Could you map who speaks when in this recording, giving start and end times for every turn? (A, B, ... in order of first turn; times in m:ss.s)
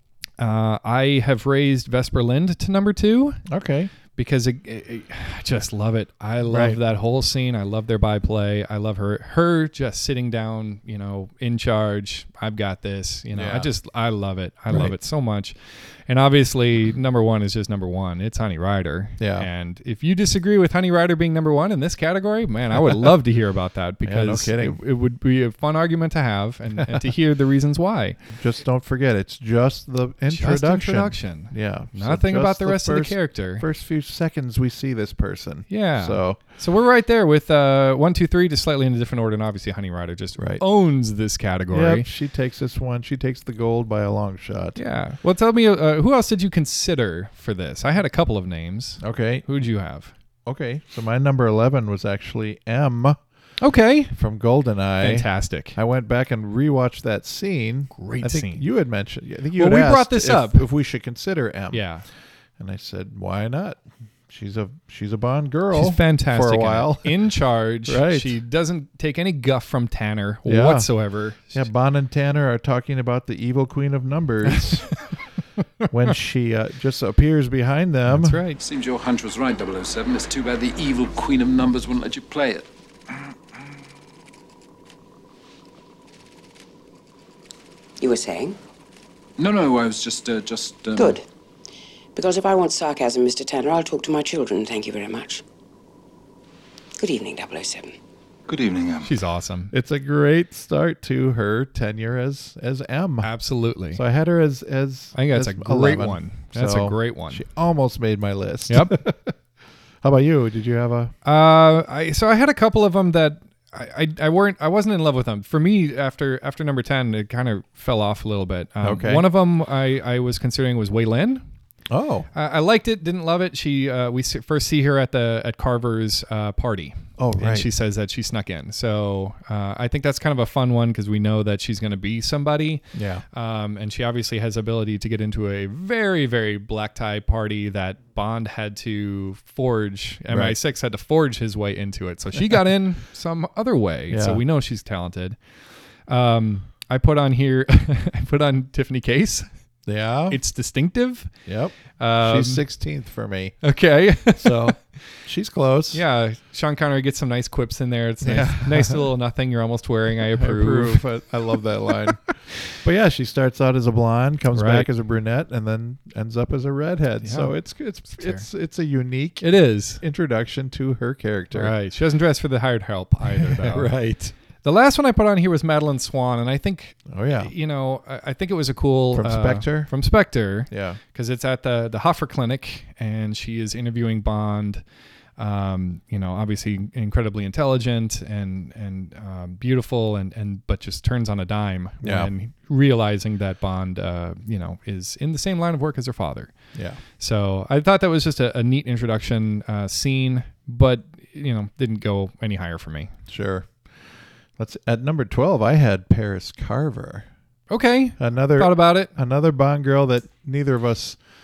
0:00.4-0:03.4 A
0:03.5-0:03.9 B
0:04.2-0:15.5 A
0:06.4-0:06.8 B
0:13.3-0:13.7 B
0:14.7-0:14.9 B
0:16.1-0:28.2 A
0:19.2-0:19.5 B
0:24.0-0:24.8 B
0:28.3-0:36.4 B
0:30.3-0:33.6 A
0:35.7-0:42.1 A
0:40.4-0:40.6 B
0:41.7-0:44.8 B
0:44.8-0:50.1 A
0:49.0-0:49.4 B
0:50.4-0:53.2 B
0:53.6-0:54.1 A
0:54.1-1:01.8 B
0:55.0-0:55.8 A
0:57.9-0:58.6 A
0:59.6-1:00.6 A
1:01.7-1:02.0 A
1:02.6-1:07.3 B
1:05.7-1:11.7 A
1:07.8-1:08.3 B
1:10.4-1:10.9 B
1:11.4-1:14.9 B
1:15.9-1:18.4 B
1:18.1-1:18.6 A
1:18.6-1:23.1 C
1:28.0-1:28.6 D
1:29.4-1:31.2 C
1:30.9-1:31.2 D
1:32.1-1:35.4 D
1:37.0-1:38.0 D
1:38.5-1:39.2 C
1:39.0-1:39.7 A
1:39.7-1:43.3 B
1:43.2-1:44.0 A
1:43.9-1:49.3 B
1:45.1-1:47.4 A
1:48.7-1:49.0 A
1:50.0-1:51.1 B
1:51.2-2:01.4 A
1:58.8-1:59.2 B
2:01.9-2:02.3 B
2:02.3-2:25.4 A
2:07.2-2:07.7 B
2:12.9-2:13.2 B
2:20.3-2:20.6 B
2:22.3-2:22.6 B
2:24.1-2:24.4 B
2:26.1-2:29.4 A
2:29.8-2:30.4 B
2:30.3-2:31.3 A
2:31.4-2:33.6 B
2:32.0-2:32.6 A
2:33.6-2:34.7 A
2:34.3-2:36.0 B
2:35.9-2:41.0 A
2:38.2-2:39.1 B
2:40.2-2:42.2 B
2:42.7-2:49.5 B
2:44.5-2:44.9 A
2:47.2-2:47.5 A
2:48.1-2:48.4 A
2:49.4-2:50.0 A
2:50.0-2:51.7 B
2:51.5-2:53.9 A
2:53.2-2:54.3 B
2:54.6-3:04.8 A
2:57.1-2:57.5 B
2:59.1-2:59.9 B
3:00.7-3:01.0 B
3:05.4-3:16.5 A
3:12.0-3:12.3 B
3:16.7-3:17.0 B
3:17.2-3:23.1 A
3:23.3-3:23.9 B
3:24.6-3:27.3 B
3:27.7-3:29.1 A
3:28.2-3:31.2 B